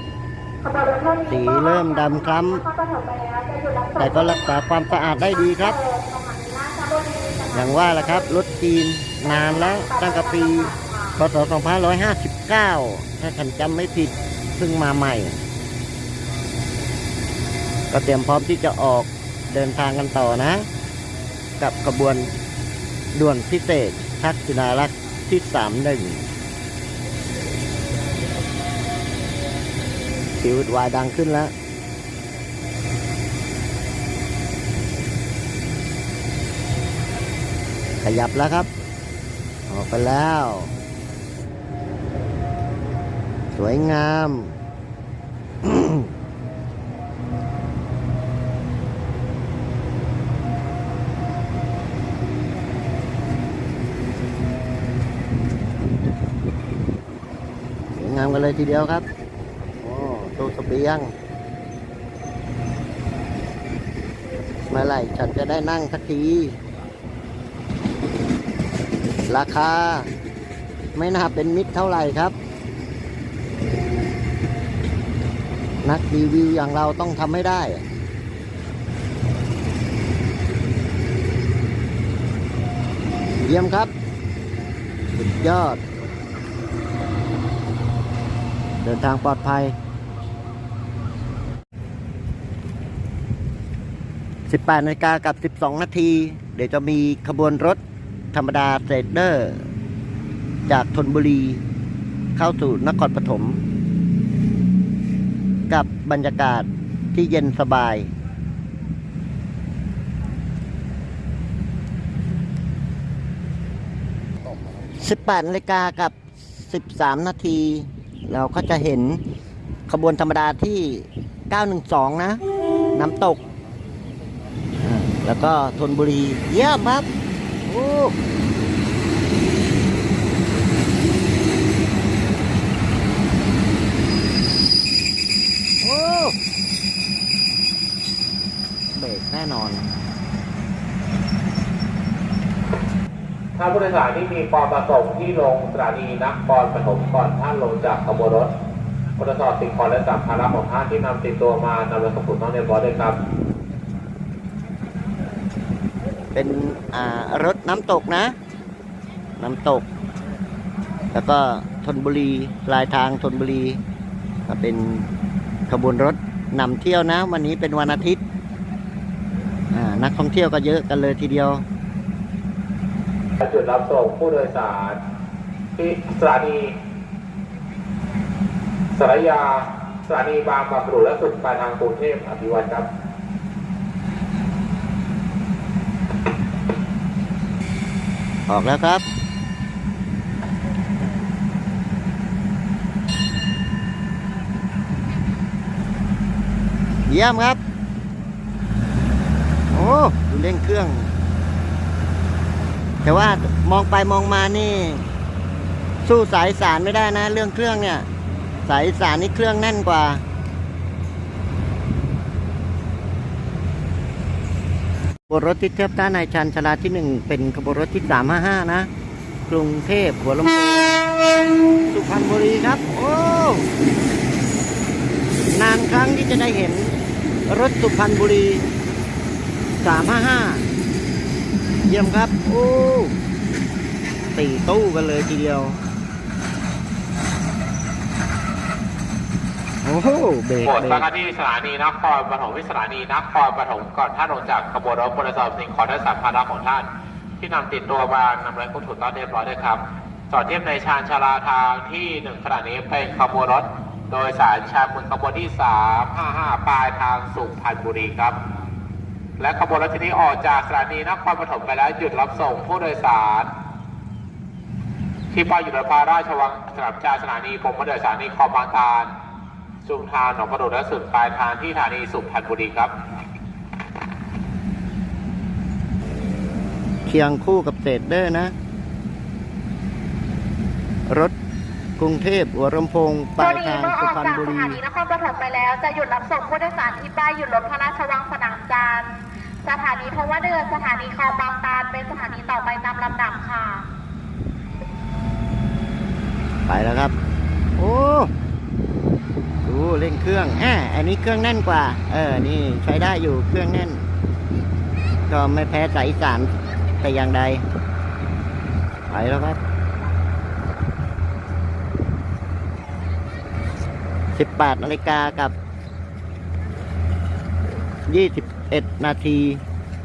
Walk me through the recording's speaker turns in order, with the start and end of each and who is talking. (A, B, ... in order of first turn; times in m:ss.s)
0:00.6-0:08.5 A
0:01.3-0:02.6 B
0:04.0-0:05.8 B
0:07.5-0:15.4 B
0:09.2-0:11.2 A
0:17.9-0:20.7 B
0:21.6-0:22.3 B
0:23.1-0:26.3 B
0:30.4-0:31.5 B
0:38.0-0:38.7 B
0:39.7-0:40.7 B
0:43.5-0:44.6 B
0:45.6-0:46.1 B
0:57.9-0:59.0 B
0:59.8-1:01.1 B
1:04.7-1:06.6 B
1:09.3-1:10.1 B
1:10.9-1:12.3 B
1:15.8-1:17.8 B
1:23.4-1:23.9 B
1:25.1-1:25.8 B
1:28.8-1:29.7 B
1:34.5-1:37.8 B
1:38.3-1:39.6 B
1:40.7-1:41.6 B
1:42.4-1:43.6 B
1:45.7-1:48.1 B
1:55.0-1:59.2 B
1:59.9-2:02.4 B
2:02.9-2:03.4 B
2:04.8-2:07.1 B
2:07.6-2:08.2 B
2:15.8-2:16.4 B
2:18.9-2:19.9 B
2:23.6-2:28.5 C
2:29.2-2:33.2 C
2:36.3-2:38.3 B
2:39.4-2:39.8 B
2:41.1-2:43.8 B
2:44.5-2:45.1 B
2:45.7-2:48.2 B
2:49.7-2:51.6 B
2:53.4-2:55.0 C
2:55.8-2:56.7 C
2:58.9-3:02.9 C
3:08.5-3:09.0 B
3:17.1-3:17.6 B
3:19.7-3:21.1 B
3:23.0-3:25.1 B
3:26.0-3:28.1 B
3:28.6-3:30.2 B
3:35.3-3:38.9 B
3:39.5-3:41.1 B
3:41.9-3:43.7 B
3:45.5-3:47.0 B
3:47.5-3:48.7 B
3:49.8-3:50.7 B
3:51.9-3:53.2 B
3:54.3-3:55.8 B
3:59.8-4:01.1 B
4:00.6-4:06.9 C
4:07.4-4:18.4 C
4:19.4-4:23.5 C
4:25.3-4:29.1 C
4:29.8-4:32.9 C
4:37.0-4:38.5 B
4:41.1-4:41.3 B
4:42.0-4:44.8 B
4:43.4-4:49.1 A
4:49.6-4:53.9 A
4:56.7-4:57.1 B
4:57.8-4:58.3 B
4:59.6-5:04.0 B
5:05.3-5:06.5 B
5:07.0-5:07.6 B
5:09.1-5:09.6 B
5:14.3-5:15.5 B
5:18.1-5:19.6 B